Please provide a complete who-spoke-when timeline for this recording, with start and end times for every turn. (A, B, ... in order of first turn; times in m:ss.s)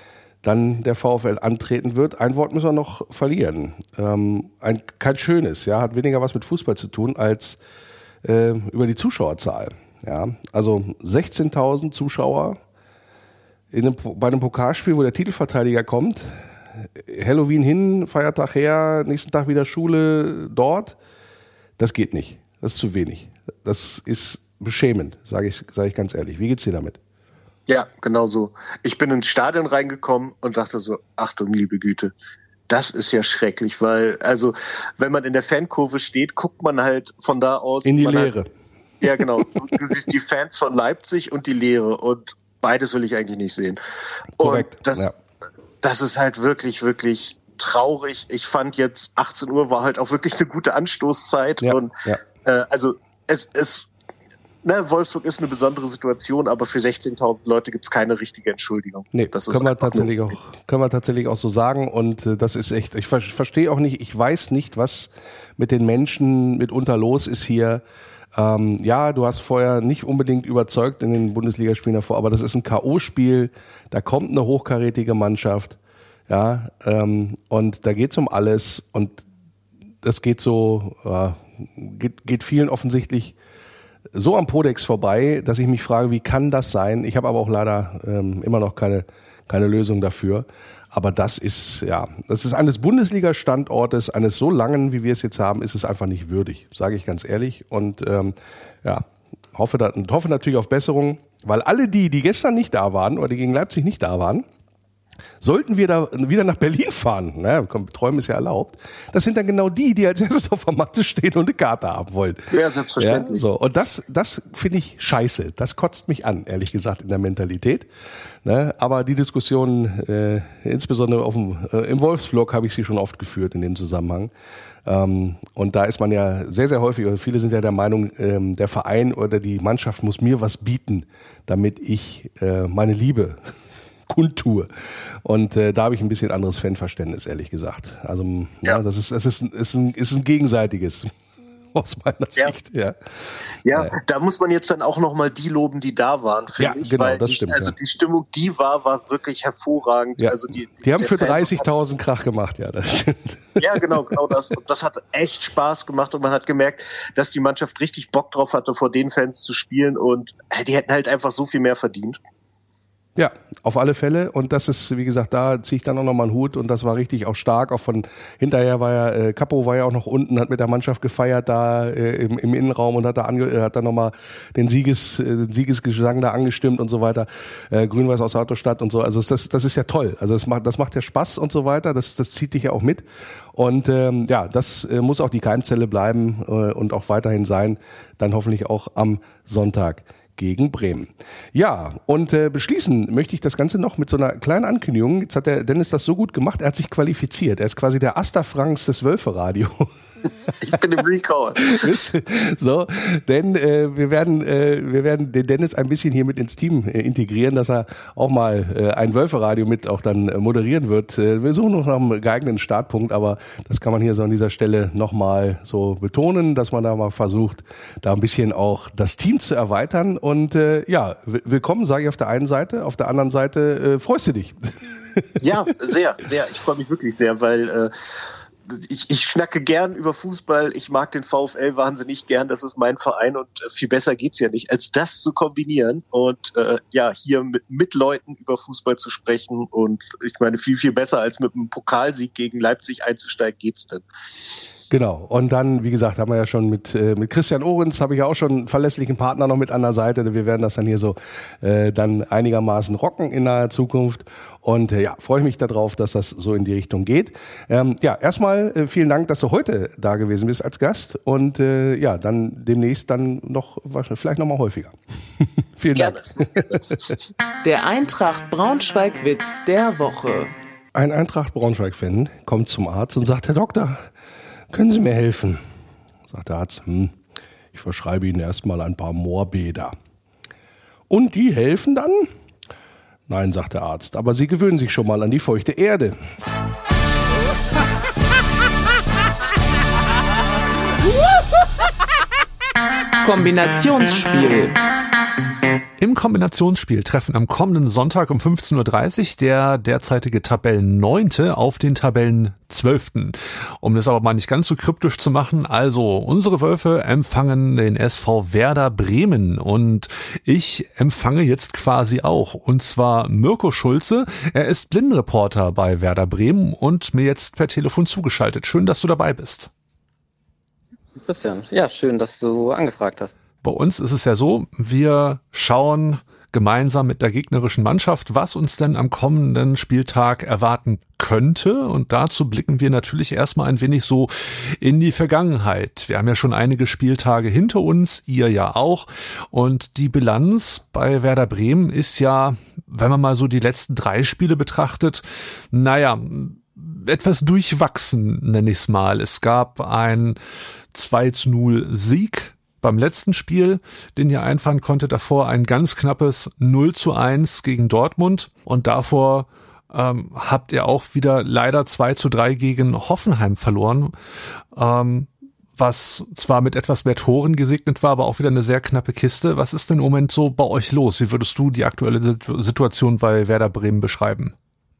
0:00.4-0:07.6 A
0:08.2-0:12.6 A
0:13.7-0:21.0 A
0:21.8-0:27.0 A
0:27.7-0:32.1 B
0:32.7-0:38.4 B
0:37.8-0:38.5 A
0:39.0-0:43.8 B
0:44.4-0:45.1 B
0:44.4-0:45.2 A
0:45.8-0:51.9 B
0:51.6-0:52.2 A
0:52.4-0:53.9 B
0:54.6-1:00.1 B
0:59.1-1:07.8 A
1:08.4-1:19.2 A
1:20.0-1:23.4 A
1:24.1-1:44.5 A
1:45.4-1:57.9 A
1:52.5-1:53.4 B
1:58.4-2:04.3 A
2:04.8-2:13.5 A
2:14.1-2:14.7 A
2:15.2-2:21.1 A
2:21.7-2:23.0 A
2:23.6-2:31.7 B
2:26.6-2:27.8 A
2:30.2-2:34.2 A
2:33.6-2:42.2 B
2:43.2-3:19.9 A
3:20.6-3:21.9 B
3:21.6-3:45.4 A
3:45.4-3:47.9 B
3:48.7-4:04.0 B
4:04.9-4:27.1 A
4:26.0-4:26.8 B
4:27.6-4:30.5 C
4:31.0-4:34.0 A
4:34.7-4:35.6 A
4:36.3-4:37.2 A
4:37.7-4:40.0 A
4:41.1-4:42.3 A
4:43.3-4:46.2 A
4:53.2-4:54.8 C
4:56.0-5:19.7 D
5:21.2-5:23.4 E
5:23.6-5:50.4 D
5:50.9-6:04.2 D
6:04.7-6:14.6 D